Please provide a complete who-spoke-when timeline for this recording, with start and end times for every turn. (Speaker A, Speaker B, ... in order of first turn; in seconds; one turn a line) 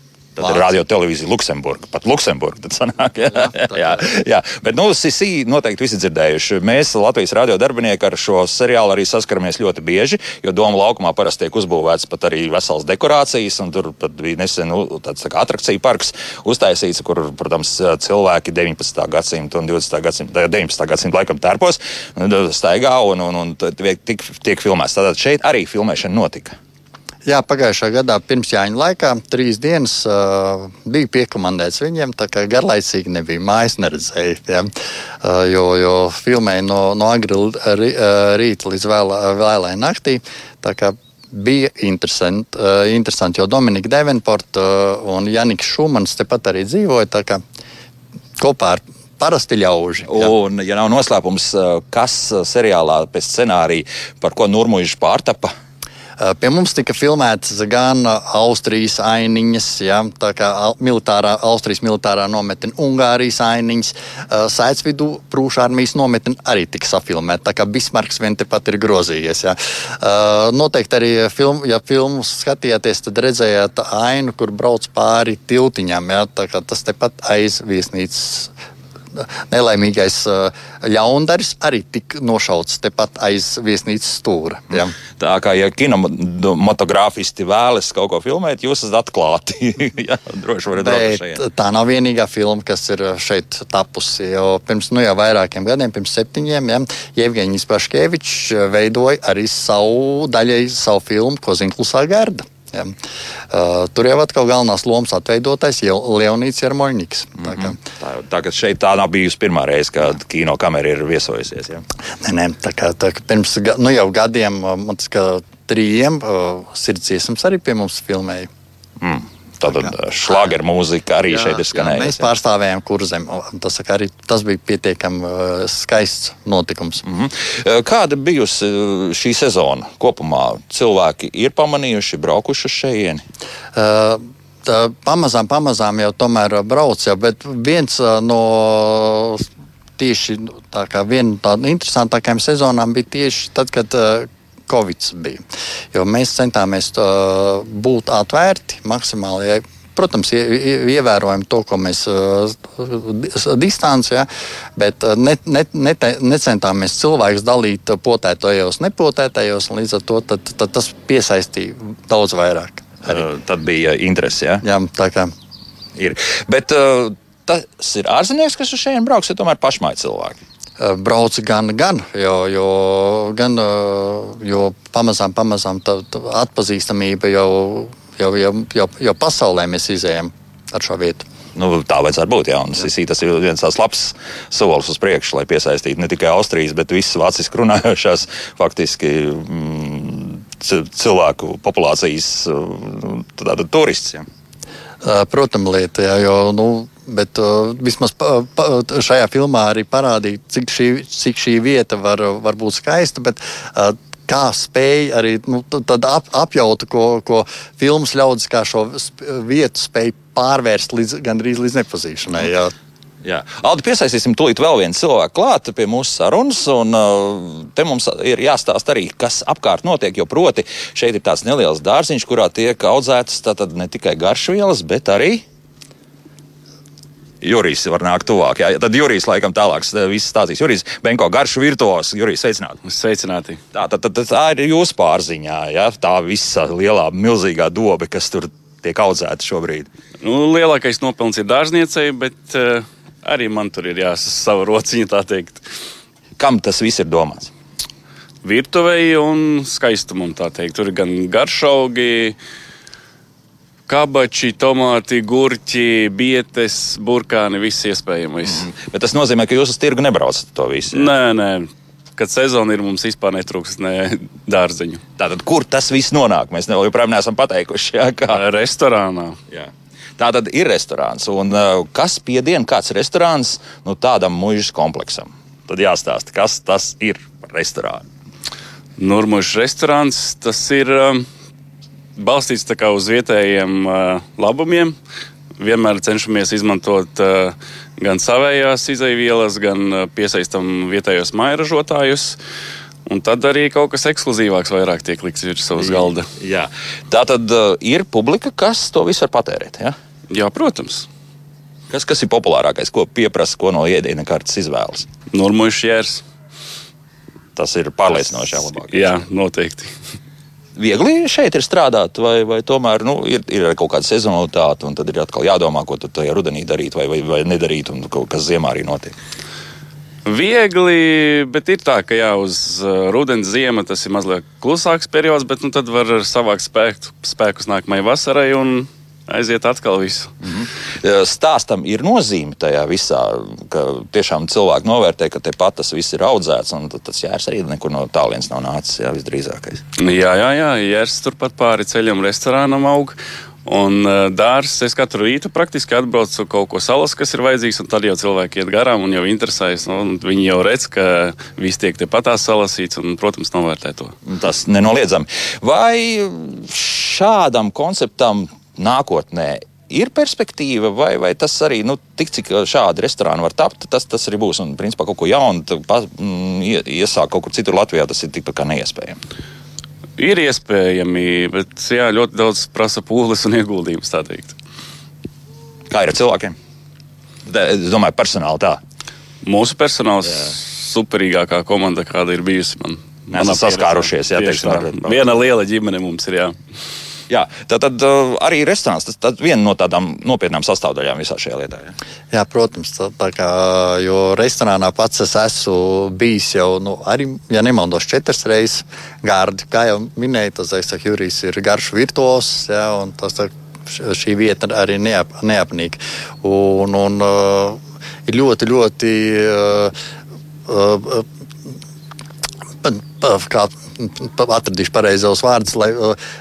Speaker A: 0.4-26.6
Speaker B: 0.4-0.6
Speaker B: 3.3-4.1
Speaker B: 27.3-34.7
Speaker B: 35.2-47.4
Speaker B: 48.4-50.3
Speaker A: 50.1-55.5
Speaker B: 56.2-78.5
Speaker B: 79.1-85.0
Speaker A: 85.2-91.4
Speaker B: 90.8-103.0
Speaker B: 103.5-107.8
Speaker A: 107.5-111.8
Speaker B: 112.2-118.5
Speaker A: 119.0-122.3
Speaker B: 119.7-120.5
Speaker B: 121.3-127.0
Speaker A: 127.0-133.2
Speaker B: 133.8-139.4
Speaker B: 140.0-163.2
Speaker A: 163.1-164.7
Speaker B: 164.6-165.3
Speaker A: 166.0-170.4
Speaker B: 170.8-181.3
Speaker A: 181.6-194.3
Speaker B: 195.0-212.7
Speaker A: 213.2-225.4
Speaker A: 227.4-232.8
Speaker C: 232.8-233.6
Speaker A: 233.7-239.9
Speaker C: 240.2-245.6
Speaker A: 246.4-247.5
Speaker C: 248.4-252.4
Speaker C: 253.9-258.7
Speaker A: 258.5-261.1
Speaker C: 260.9-265.0
Speaker A: 265.2-268.4
Speaker C: 268.3-269.4
Speaker A: 269.5-278.0
Speaker C: 279.0-281.3
Speaker C: 282.2-285.0
Speaker C: 285.6-292.4
Speaker C: 293.1-296.3
Speaker A: 295.8-299.9
Speaker C: 300.3-301.1
Speaker A: 301.9-305.1
Speaker C: 305.3-306.2
Speaker A: 307.6-309.2
Speaker C: 308.9-309.9
Speaker A: 310.8-319.1
Speaker C: 320.3-330.3
Speaker A: 330.4-339.8
Speaker C: 340.0-354.1
Speaker A: 354.3-369.2
Speaker C: 370.2-374.6
Speaker A: 375.9-376.6
Speaker A: 377.5-378.8
Speaker C: 379.4-386.6
Speaker A: 380.2-380.5
Speaker A: 383.3-385.3
Speaker A: 387.3-391.9
Speaker B: 392.3-409.9
Speaker B: 410.7-411.3
Speaker B: 412.8-416.2